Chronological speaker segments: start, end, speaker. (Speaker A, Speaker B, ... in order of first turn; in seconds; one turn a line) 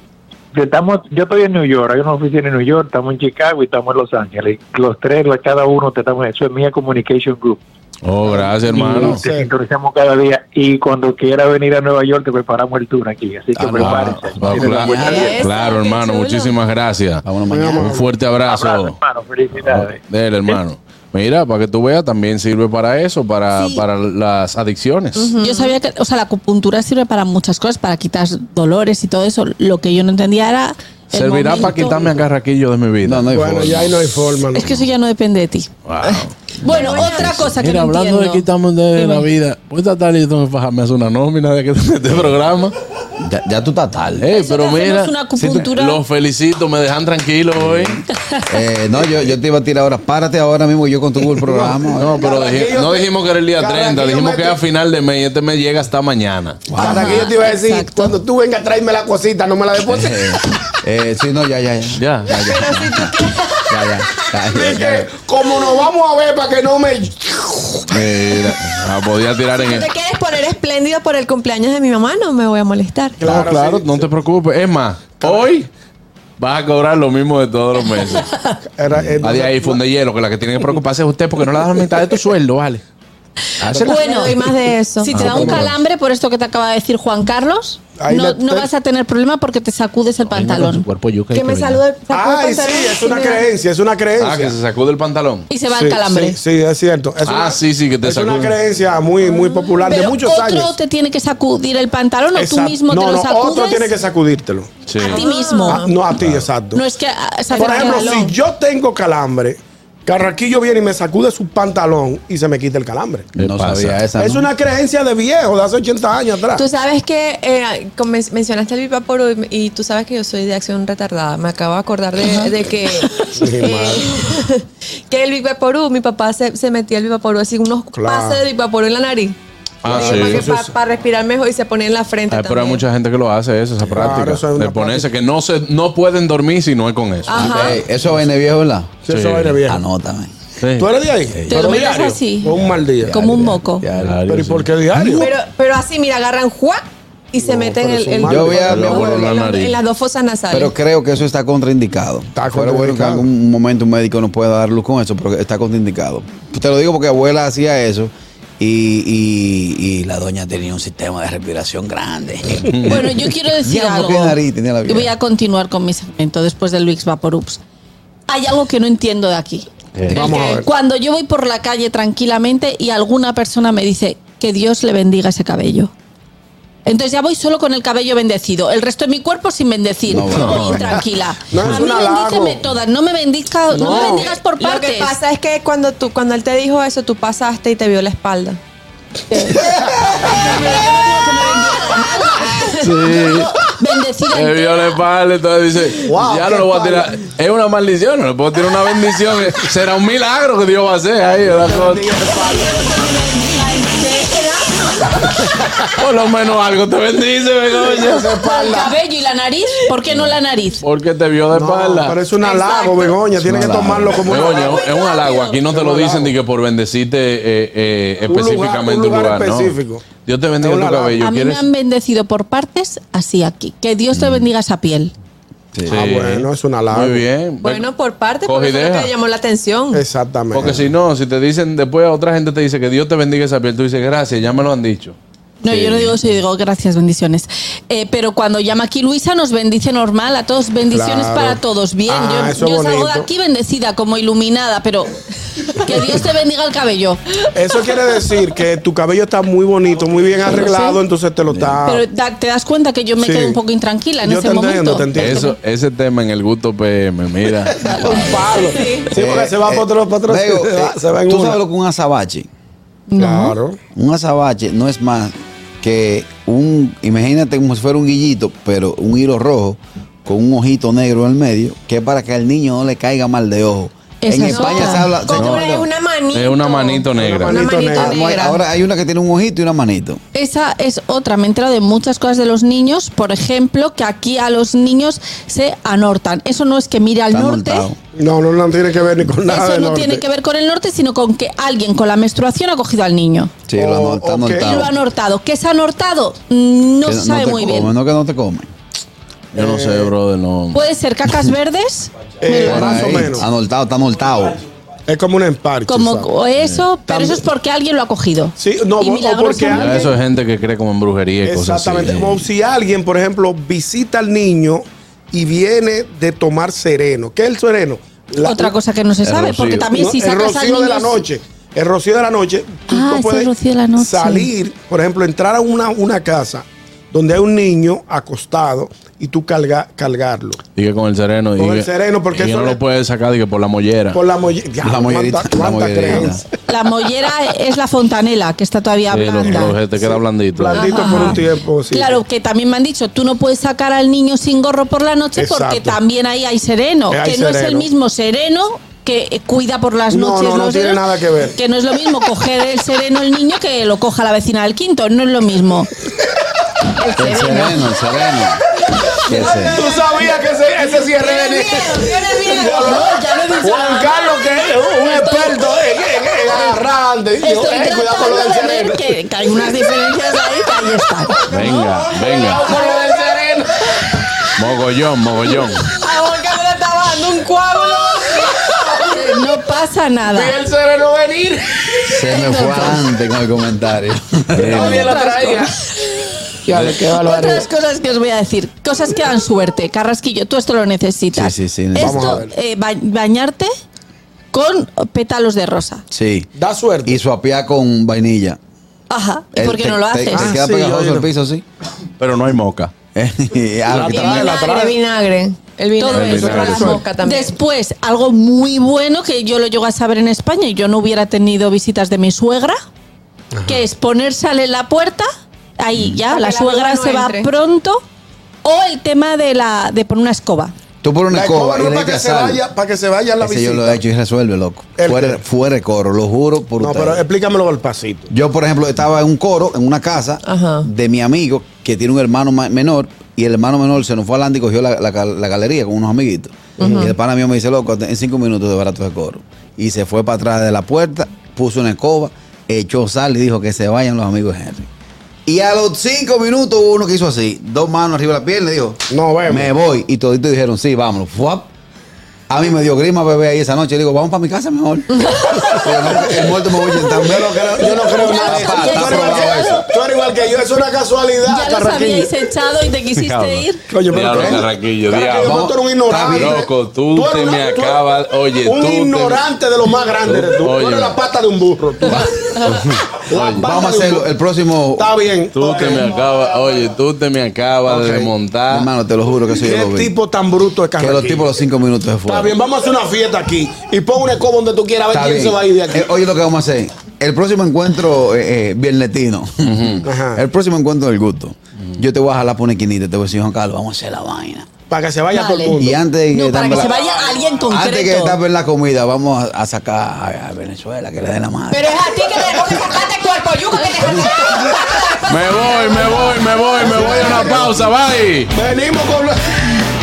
Speaker A: 0.5-7.6
Speaker B: 8.0-9.2
Speaker C: 8.2-9.5
Speaker A: 8.7-15.2
Speaker D: 13.6-15.4
Speaker B: 13.8-17.2
Speaker E: 15.1-16.6
Speaker D: 17.2-18.1
Speaker C: 17.5-18.1
Speaker B: 17.8-19.0
Speaker A: 18.4-20.0
Speaker B: 19.6-25.3
Speaker F: 23.5-23.8
Speaker E: 25.1-25.8
Speaker F: 25.4-32.0
Speaker B: 31.1-34.0
Speaker D: 33.0-33.8
Speaker C: 33.3-34.8
Speaker F: 34.5-35.7
Speaker B: 35.9-36.4
Speaker E: 36.0-37.4
Speaker F: 36.6-38.5
Speaker B: 37.0-42.8
Speaker F: 39.0-39.2
Speaker D: 43.2-44.3
Speaker B: 44.2-48.0
Speaker F: 44.3-46.0
Speaker D: 47.6-52.2
Speaker F: 48.1-48.5
Speaker C: 51.3-54.6
Speaker B: 52.0-56.6
Speaker D: 56.7-57.2
Speaker F: 56.8-58.1
Speaker C: 56.8-60.4
Speaker D: 59.9-63.1
Speaker B: 62.0-62.3
Speaker E: 62.3-64.2
Speaker D: 63.7-65.1
Speaker C: 64.5-67.9
Speaker B: 67.9-69.9
Speaker E: 69.6-73.4
Speaker C: 73.2-74.1
Speaker B: 73.2-75.7
Speaker C: 75.2-75.5
Speaker B: 76.4-78.3
Speaker C: 78.8-79.8
Speaker D: 79.0-79.3
Speaker B: 79.2-82.8
Speaker B: 83.6-84.0
Speaker F: 83.7-84.4
Speaker C: 83.7-84.0
Speaker E: 83.8-85.5
Speaker F: 85.0-90.8
Speaker B: 85.1-85.8
Speaker C: 85.3-85.7
Speaker C: 88.0-88.7
Speaker B: 90.3-91.8
Speaker E: 91.3-93.5
Speaker C: 92.1-94.6
Speaker B: 94.2-95.5
Speaker F: 95.5-96.4
Speaker C: 95.7-100.8
Speaker B: 97.2-98.6
Speaker F: 99.2-103.9
Speaker C: 102.3-104.7
Speaker B: 104.9-105.2
Speaker E: 105.0-106.0
Speaker F: 105.0-105.9
Speaker C: 105.7-106.8
Speaker B: 106.2-106.5
Speaker F: 106.8-108.3
Speaker E: 107.5-108.3
Speaker C: 107.6-113.3
Speaker D: 113.3-114.5
Speaker B: 113.4-114.0
Speaker C: 114.2-116.6
Speaker E: 116.5-132.8
Speaker C: 123.3-124.0
Speaker C: 127.9-128.4
Speaker B: 129.8-130.5
Speaker C: 129.8-130.8
Speaker B: 132.3-137.7
Speaker C: 133.9-135.1
Speaker E: 137.3-137.8
Speaker D: 137.3-139.0
Speaker C: 139.1-139.8
Speaker B: 139.1-139.6
Speaker D: 139.7-140.3
Speaker B: 140.6-140.9
Speaker C: 140.8-143.2
Speaker D: 141.3-141.8
Speaker F: 141.5-142.5
Speaker D: 143.0-144.2
Speaker F: 143.1-143.9
Speaker B: 143.9-144.7
Speaker C: 144.3-145.3
Speaker E: 145.2-150.7
Speaker C: 147.4-148.7
Speaker D: 148.3-149.3
Speaker B: 148.7-149.8
Speaker D: 150.5-165.1
Speaker C: 152.3-153.3
Speaker B: 162.7-163.1
Speaker F: 162.9-167.6
Speaker F: 168.3-175.9
Speaker B: 170.0-170.2
Speaker C: 170.1-170.7
Speaker E: 170.2-170.6
Speaker F: 176.8-185.2
Speaker D: 180.1-180.9
Speaker B: 180.3-181.0
Speaker C: 181.5-182.6
Speaker C: 183.7-184.3
Speaker E: 183.8-188.6
Speaker F: 189.3-195.0
Speaker D: 189.7-190.3
Speaker E: 192.4-193.0
Speaker B: 192.8-193.5
Speaker B: 194.3-202.0
Speaker C: 196.1-197.1
Speaker C: 201.6-203.0
Speaker F: 202.6-204.4
Speaker B: 205.9-208.4
Speaker C: 207.8-208.9
Speaker F: 208.4-210.8
Speaker B: 210.1-212.2
Speaker C: 211.5-214.8
Speaker E: 212.4-213.2
Speaker D: 213.4-214.2
Speaker E: 214.3-215.6
Speaker B: 214.3-221.7
Speaker C: 215.7-216.3
Speaker C: 218.2-220.1
Speaker C: 220.6-221.2
Speaker F: 221.2-225.1
Speaker D: 224.1-224.5
Speaker D: 225.7-226.0
Speaker B: 225.9-227.9
Speaker C: 225.9-227.2
Speaker E: 227.6-230.1
Speaker B: 228.4-229.1
Speaker C: 229.9-230.7
Speaker B: 230.5-235.2
Speaker D: 230.6-230.9
Speaker F: 235.6-245.1
Speaker D: 235.7-236.2
Speaker C: 240.9-243.3
Speaker F: 245.7-247.2
Speaker C: 247.5-252.0
Speaker F: 250.5-251.0
Speaker D: 251.5-251.8
Speaker F: 251.9-255.6
Speaker C: 253.2-253.6
Speaker C: 254.2-255.5
Speaker B: 255.2-258.0
Speaker D: 257.8-258.5
Speaker C: 257.9-261.6
Speaker F: 257.9-259.0
Speaker E: 258.5-259.0
Speaker D: 259.1-262.5
Speaker F: 263.1-263.6
Speaker C: 263.2-263.8
Speaker D: 263.9-275.8
Speaker F: 274.2-275.1
Speaker E: 274.4-278.6
Speaker B: 275.3-275.7
Speaker B: 276.3-277.6
Speaker C: 277.1-278.1
Speaker D: 278.0-280.2
Speaker F: 280.3-287.9
Speaker D: 287.3-288.0
Speaker C: 288.1-290.2
Speaker F: 289.5-293.5
Speaker D: 293.7-294.9
Speaker C: 293.8-294.8
Speaker F: 294.6-297.9
Speaker D: 297.0-298.7
Speaker B: 299.5-300.8
Speaker C: 299.5-300.1
Speaker F: 300.7-303.1
Speaker C: 302.4-303.5
Speaker D: 302.5-304.6
Speaker C: 305.1-306.3
Speaker F: 305.9-310.1
Speaker B: 306.6-306.9
Speaker C: 307.1-307.4
Speaker C: 308.6-310.0
Speaker B: 309.7-312.3
Speaker C: 311.4-318.7
Speaker D: 312.0-312.4
Speaker F: 318.4-321.2
Speaker D: 319.2-319.9
Speaker C: 319.9-330.6
Speaker F: 322.9-324.5
Speaker B: 330.8-334.2
Speaker C: 331.6-332.8
Speaker C: 334.1-336.4
Speaker D: 334.8-336.4
Speaker F: 336.7-339.8
Speaker B: 339.1-341.4
Speaker C: 339.6-342.2
Speaker E: 340.7-341.3
Speaker F: 340.8-341.4
Speaker F: 341.9-355.9
Speaker C: 345.4-346.0
Speaker C: 347.1-347.9
Speaker C: 350.1-351.6
Speaker F: 356.8-357.9
Speaker D: 357.2-358.6
Speaker D: 359.3-359.8
Speaker C: 359.3-369.1
Speaker F: 359.3-360.0
Speaker E: 359.4-360.1
Speaker F: 360.8-365.6
Speaker E: 362.1-362.4
Speaker F: 366.5-366.8
Speaker F: 367.4-371.5
Speaker C: 371.4-373.7
Speaker B: 371.5-372.7
Speaker E: 372.8-373.1
Speaker B: 374.6-375.9
Speaker E: 375.9-379.2
Speaker C: 378.3-379.0
Speaker F: 379.1-380.6
Speaker C: 380.3-381.9
Speaker D: 382.1-385.1
Speaker F: 382.3-383.0
Speaker B: 384.6-385.2
Speaker C: 384.6-385.7
Speaker F: 384.8-386.1
Speaker C: 386.6-387.7
Speaker F: 387.1-393.7
Speaker D: 391.3-392.4
Speaker C: 392.0-392.5
Speaker F: 394.5-396.0
Speaker D: 396.1-396.5
Speaker C: 396.6-397.2
Speaker D: 397.1-398.6
Speaker F: 399.1-400.5
Speaker D: 399.5-401.6
Speaker C: 400.3-401.3
Speaker B: 402.2-402.9
Speaker D: 403.1-404.6
Speaker C: 403.9-404.9
Speaker E: 404.1-407.6
Speaker F: 406.0-412.8
Speaker B: 406.1-406.9
Speaker C: 406.3-407.0
Speaker F: 413.7-415.3
Speaker F: 415.8-418.0
Speaker E: 416.3-417.5
Speaker F: 418.6-420.7
Speaker D: 421.0-422.6
Speaker C: 421.3-424.0
Speaker D: 423.4-427.2
Speaker C: 425.0-425.4
Speaker C: 426.8-428.3
Speaker D: 428.3-444.9
Speaker E: 430.5-430.9
Speaker E: 436.8-437.2
Speaker D: 445.5-451.7
Speaker C: 449.1-449.7
Speaker D: 452.5-459.8
Speaker E: 455.2-455.6
Speaker F: 455.4-455.9
Speaker C: 457.2-462.3
Speaker F: 457.8-459.9
Speaker F: 461.5-463.8
Speaker B: 463.2-465.7
Speaker C: 463.9-468.0
Speaker D: 464.3-464.6
Speaker D: 465.4-466.6
Speaker B: 466.3-469.5
Speaker C: 468.6-472.6
Speaker B: 470.2-471.2
Speaker B: 472.1-473.7
Speaker C: 473.2-474.3
Speaker D: 473.6-475.1
Speaker C: 475.0-476.2
Speaker B: 475.5-478.9
Speaker C: 477.9-478.3
Speaker D: 478.7-480.1
Speaker C: 479.6-481.5
Speaker D: 481.0-482.5
Speaker C: 482.3-486.1
Speaker D: 485.1-494.7
Speaker B: 489.6-490.1
Speaker C: 490.0-490.4
Speaker C: 494.9-496.0
Speaker F: 495.3-495.8
Speaker D: 495.8-497.0
Speaker F: 496.3-498.4
Speaker E: 496.9-497.6
Speaker D: 497.7-502.1
Speaker F: 501.7-507.6
Speaker C: 502.4-502.8
Speaker E: 503.1-504.3
Speaker B: 505.3-508.5
Speaker C: 506.8-507.8
Speaker C: 508.5-509.4